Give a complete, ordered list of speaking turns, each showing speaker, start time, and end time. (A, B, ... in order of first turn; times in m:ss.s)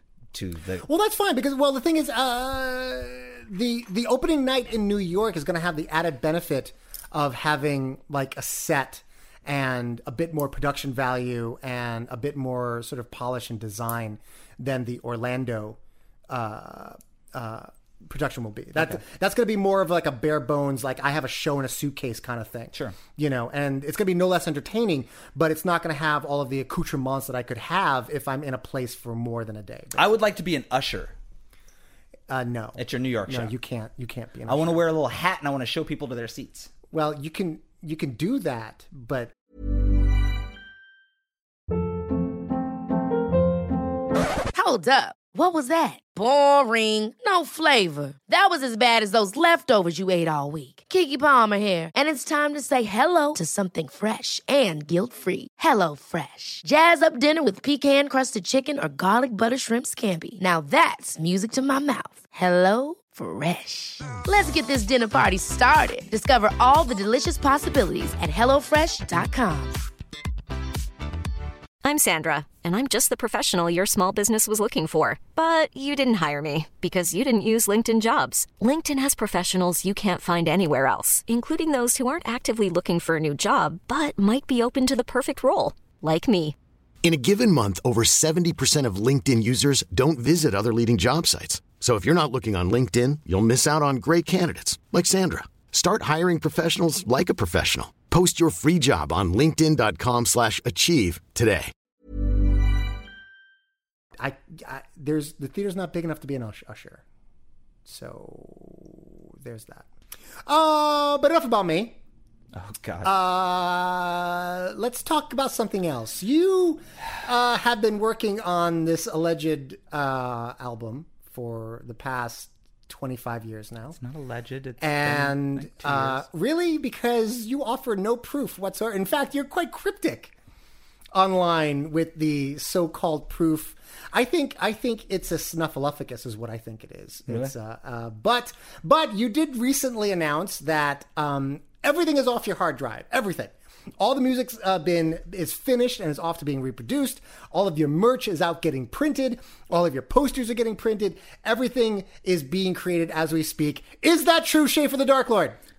0:00.3-0:00.9 A
0:00.8-0:30.2 B
0:30.0-0:31.1 A
0:32.3-0:34.8 B
0:32.8-0:33.5 A
0:34.5-0:36.7 A
0:36.9-0:39.3 B
0:44.5-1:09.8 C
1:11.8-1:26.6 D
1:27.0-1:41.7 E
1:44.2-1:47.0 B
1:47.8-1:49.9 B
1:50.5-1:52.0 B
1:52.5-1:53.1 A
1:53.0-2:04.0 B
2:04.0-2:06.2 A
2:04.8-2:10.3 B
2:11.1-2:35.6 B